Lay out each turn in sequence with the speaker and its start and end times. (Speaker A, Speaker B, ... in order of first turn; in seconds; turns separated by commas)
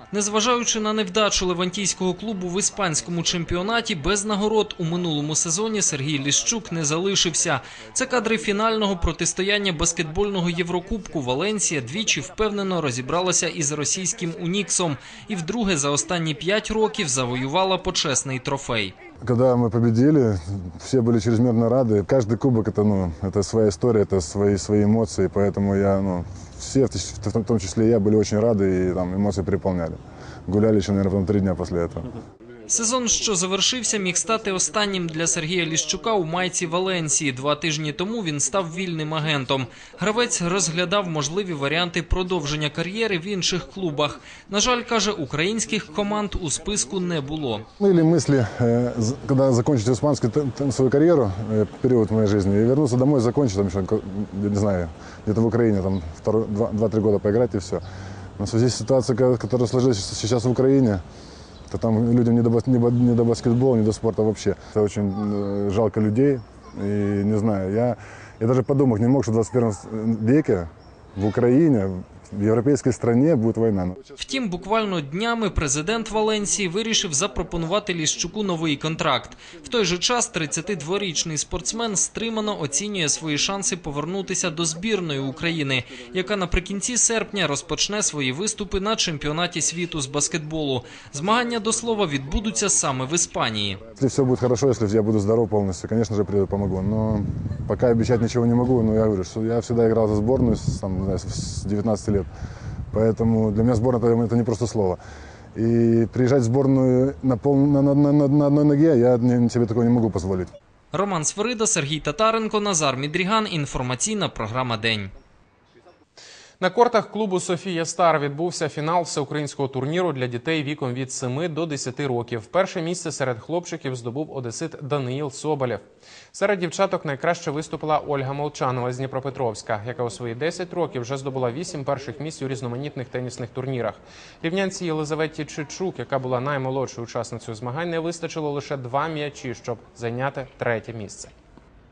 Speaker A: 0.1-18.9, Speaker B: 19.2-32.1, Speaker A: 32.7-47.6, Speaker B: 47.8-57.8, Speaker B: 58.4-61.0, Speaker B: 61.7-74.0, Speaker A: 74.2-93.8, Speaker B: 94.0-102.3, Speaker B: 102.9-105.0, Speaker B: 105.5-110.5, Speaker A: 110.9-115.1, Speaker C: 116.6-141.3